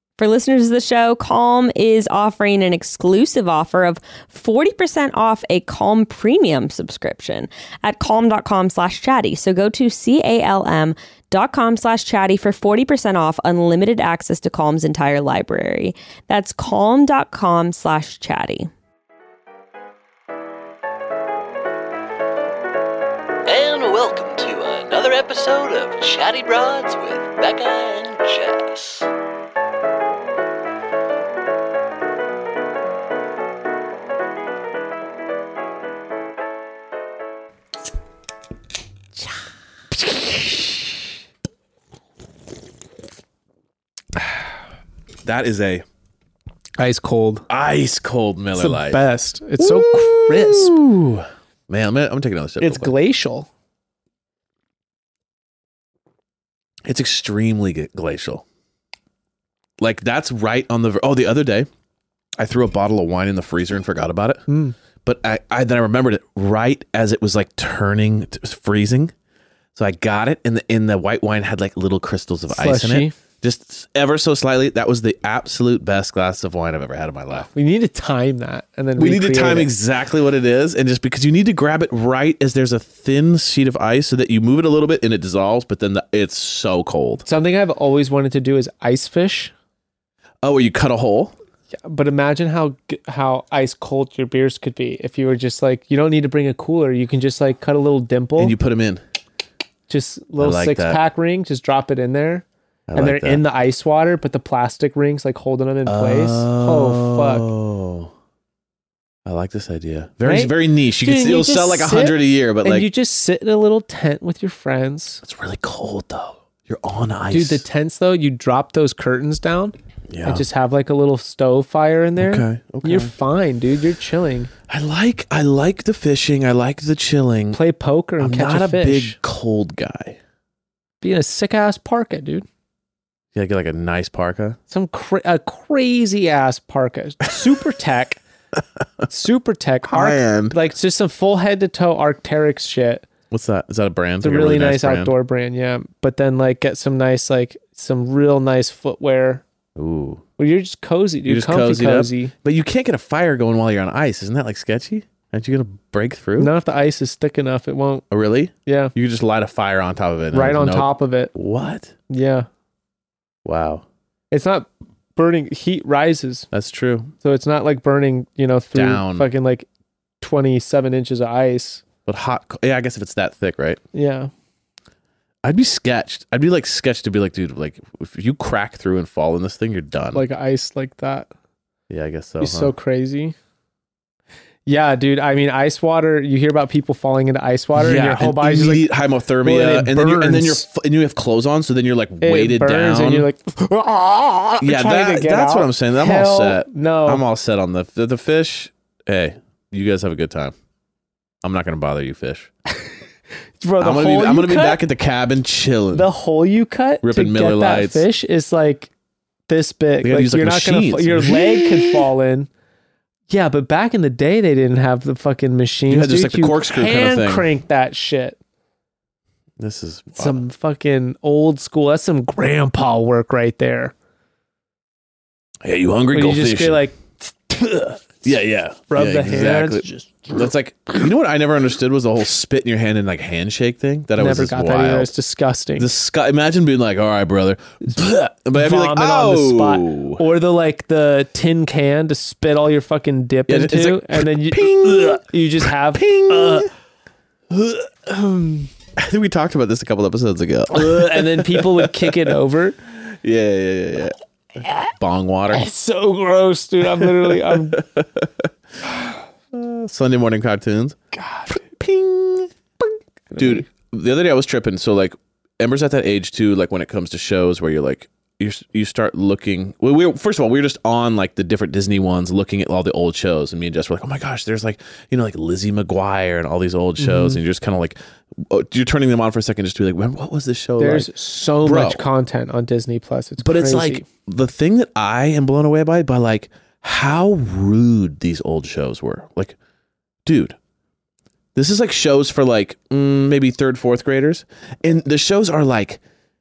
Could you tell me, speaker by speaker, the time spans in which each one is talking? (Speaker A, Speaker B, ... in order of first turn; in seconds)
Speaker A: 0.2-18.7
Speaker B: 23.5-29.0
Speaker C: 23.6-28.5, 45.2-45.8, 47.5-49.0, 49.6-52.9, 56.8-58.4, 59.8-61.7, 62.4-64.4, 65.0-69.1, 69.7-77.5, 79.0-87.2, 90.4-91.3, 98.4-99.0, 100.4-101.0, 102.9-103.4, 105.8-108.1, 109.2-112.8, 115.2-117.6, 120.1-120.4, 122.2-123.1, 124.7-127.6, 128.2-130.2, 133.3-134.6, 139.9-140.5, 143.3-145.1, 149.8-150.2, 151.2-156.5, 158.1-161.9, 163.4-163.8, 166.5-167.1, 168.7-169.2, 172.1-173.8, 175.4-180.2, 181.9-182.7, 187.8-193.3, 194.6-200.5, 201.4-202.5, 203.8-206.1, 207.0-208.0, 210.0-212.1, 215.9-217.5, 219.6-220.4, 225.6-226.8, 228.2-235.1, 235.8-240.2, 243.5-246.7, 248.9-252.3, 253.2-254.2, 254.9-255.6, 257.7-258.4, 259.5-261.0, 261.5-262.5, 263.4-281.1, 281.6-282.0, 283.4-289.6, 290.2-290.6, 291.5-296.0
Speaker D: 46.8-47.4, 48.5-50.8, 52.6-53.5, 64.5-64.8, 72.5-73.1, 77.5-79.7, 87.2-89.5, 91.8-98.5, 99.9-102.4, 103.0-107.5, 110.2-115.2, 117.3-124.5, 127.5-129.2, 131.0-132.4, 134.7-138.2, 139.1-143.1, 144.2-149.4, 150.4-152.3, 156.4-158.0, 158.7-158.9, 160.3-161.3, 162.1-162.5, 164.3-166.5, 167.2-169.7, 170.2-171.8, 173.9-174.3, 180.1-181.3, 182.4-183.3, 184.7-188.8, 189.4-190.7, 192.2-197.2, 203.6-204.8, 205.9-208.9, 209.5-212.5, 213.3-218.4, 220.2-223.9, 226.1-228.1, 228.9-230.4, 234.2-235.9, 238.5-246.7, 247.5-248.7, 250.7-252.8, 254.6-254.9, 255.5-257.8, 261.1-261.6, 263.3-263.7, 277.0-277.4, 280.8-284.1